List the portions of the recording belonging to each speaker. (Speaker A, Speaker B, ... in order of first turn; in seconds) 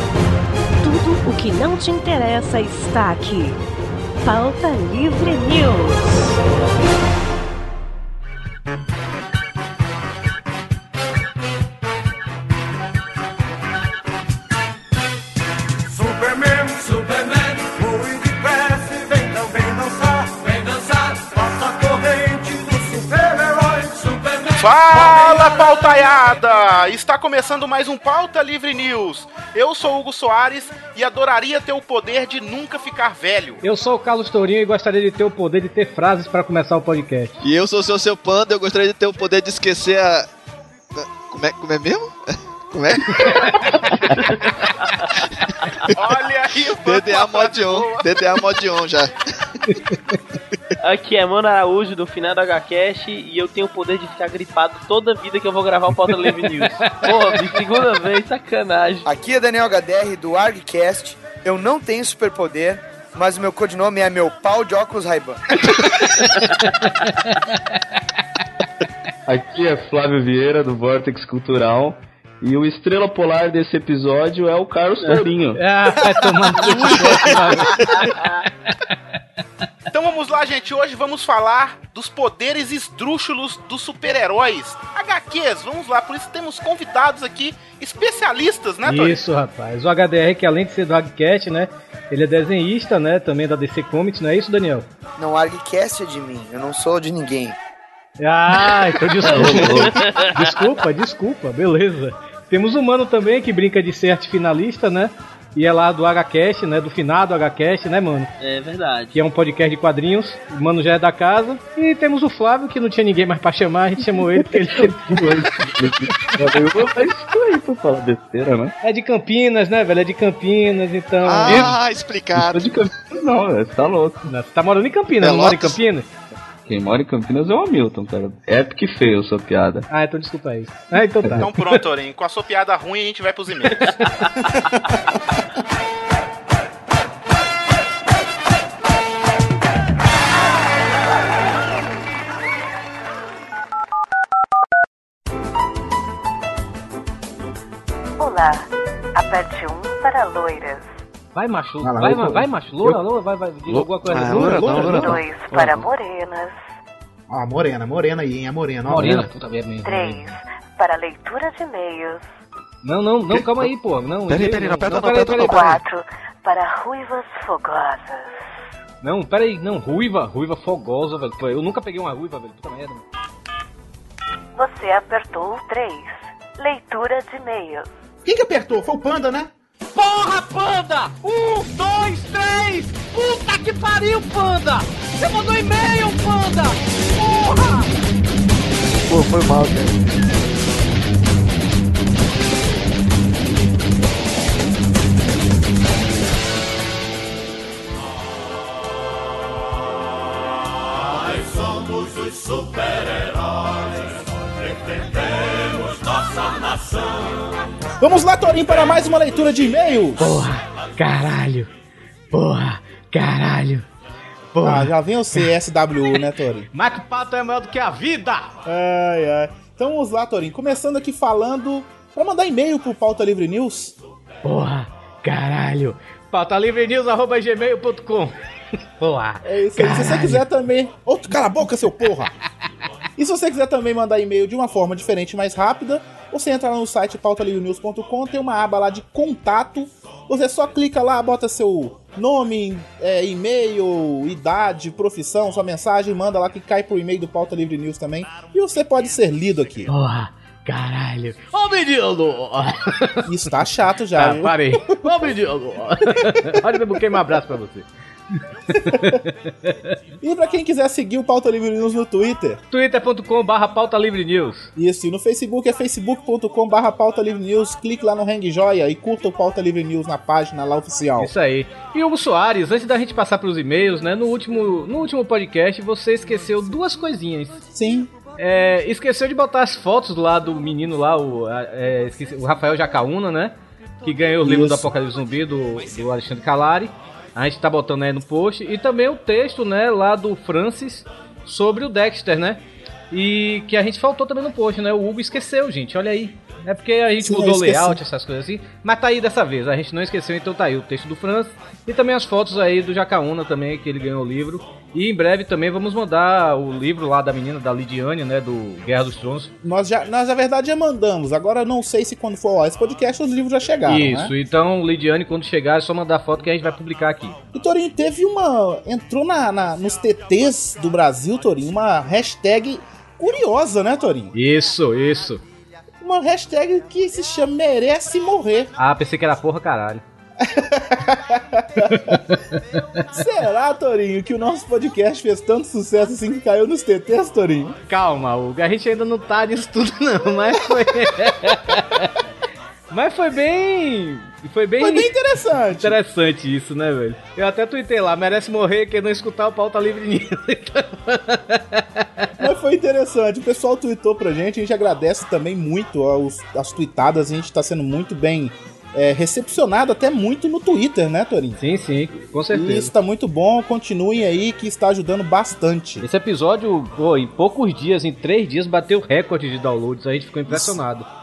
Speaker A: 0.8-3.6, 4.2-6.2, 148.2-150.9, 154.6-156.6, 159.8-162.2, 164.9-168.4, 174.5-177.9
Speaker B: 24.5-33.6, 45.9-48.4, 79.9-89.2, 131.4-134.0
Speaker C: 33.6-37.3, 56.2-57.1, 66.2-67.8, 75.5-78.1, 88.8-94.8, 98.2-108.3, 109.1-115.2, 118.8-121.8, 124.3-126.1, 129.9-131.8, 151.3-155.1, 158.9-159.9, 162.8-165.8, 169.0-173.0, 180.0-187.8, 210.2-211.7, 212.3-213.8, 214.5-215.4, 216.7-218.5, 224.4-228.3, 229.0-230.4, 249.9-253.3, 254.2-257.9, 258.7-259.7, 262.7-264.7, 271.2-277.6, 278.4-309.5, 313.9-317.4, 324.3-325.4, 328.8-330.0, 331.9-333.0, 337.9-342.2, 342.9-345.1, 345.8-352.3, 361.6-362.9, 366.0-371.1
Speaker D: 37.4-40.3, 40.9-43.9, 45.8-46.2, 46.7-49.1, 76.6-78.1, 121.2-122.7, 125.2-125.8, 154.1-155.1, 164.3-165.8, 189.1-190.0
Speaker E: 50.8-59.0, 99.6-100.4, 108.4-109.1
Speaker F: 59.0-65.7, 95.2-97.5
Speaker G: 69.3-75.6, 99.2-100.0, 114.5-118.7, 121.4-121.8, 122.3-124.3, 126.7-129.8, 151.9-153.0, 153.7-155.8, 159.0-159.3
Speaker H: 151.8-152.2, 157.3-159.1, 178.2-179.5, 208.0-210.5, 214.6-216.7, 218.6-223.9, 229.4-232.3, 233.2-249.9, 253.2-255.3, 258.8-259.2, 260.2-262.6, 264.8-271.3, 277.7-278.1, 284.4-284.9, 297.2-298.0, 309.6-314.3, 317.5-324.3, 326.0-328.7, 330.4-332.2, 333.1-337.8, 344.8-346.0, 352.4-361.6, 362.5-366.0, 370.5-370.8